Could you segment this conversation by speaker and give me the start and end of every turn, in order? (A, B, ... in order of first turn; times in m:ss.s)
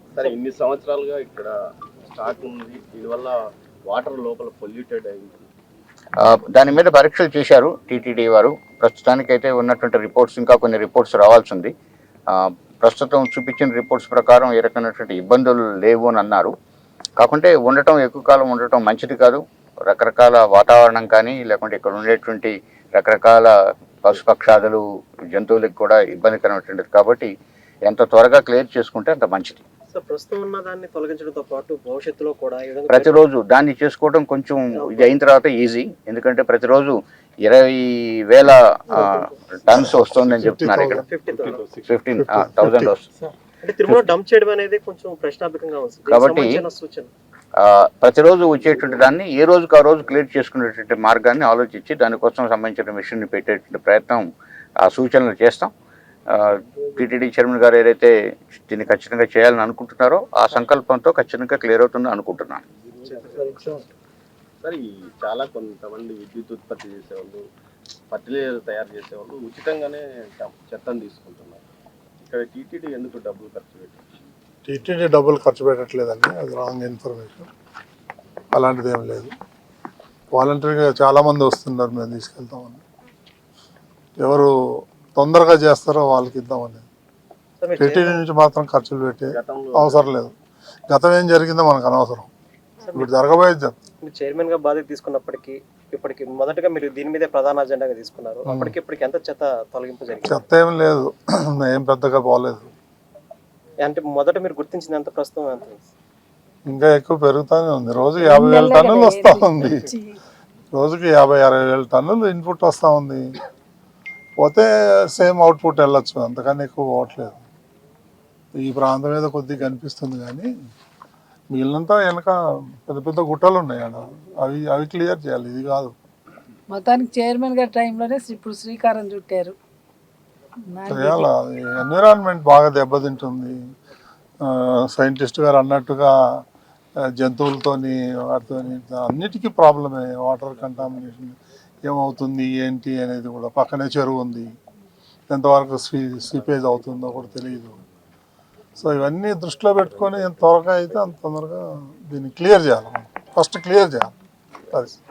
0:00.2-0:05.5 A
0:06.2-0:11.7 B
0:12.3-0:16.5 B
0:17.2-0:23.5 B
0:24.0-0:27.3 B
0:27.9-0:29.6 B
0:29.9-0:33.2 C
0:32.9-0:41.0 B
0:34.8-0:35.2 C
0:40.3-0:41.1 D
0:41.1-0:41.7 C
0:41.8-0:43.1 B
0:42.2-0:43.0 D
0:43.6-0:47.1 C
0:46.1-0:46.6 B
0:47.6-0:54.2 B
0:54.8-0:55.7 B
0:56.3-1:02.6 B
1:03.1-1:03.8 A
1:04.6-1:07.4 A
1:08.1-1:11.6 A
1:12.2-1:14.0 A
1:14.7-1:17.5 D
1:18.5-1:19.3 D
1:20.3-1:22.8 D
1:24.2-1:24.5 D
1:25.2-1:26.8 D
1:27.6-1:28.2 C
1:27.8-1:30.3 D
1:29.3-1:30.1 A
1:30.9-1:32.3 D
1:32.8-1:33.1 C
1:33.0-1:33.8 D
1:34.0-1:40.4 C
1:38.5-1:38.7 D
1:40.2-1:42.7 D
1:43.8-1:45.8 C
1:46.7-1:49.9 D
1:48.2-1:50.2 E
1:50.7-1:53.2 D
1:54.4-1:57.4 D
1:58.6-2:00.5 D
2:01.5-2:05.9 D
2:06.7-2:09.6 E
2:10.7-2:11.3 E
2:10.9-2:13.6 D
2:14.4-2:16.1 D
2:17.2-2:24.5 D
2:25.3-2:27.8 D
2:28.8-2:34.1 D
2:34.7-2:35.0 D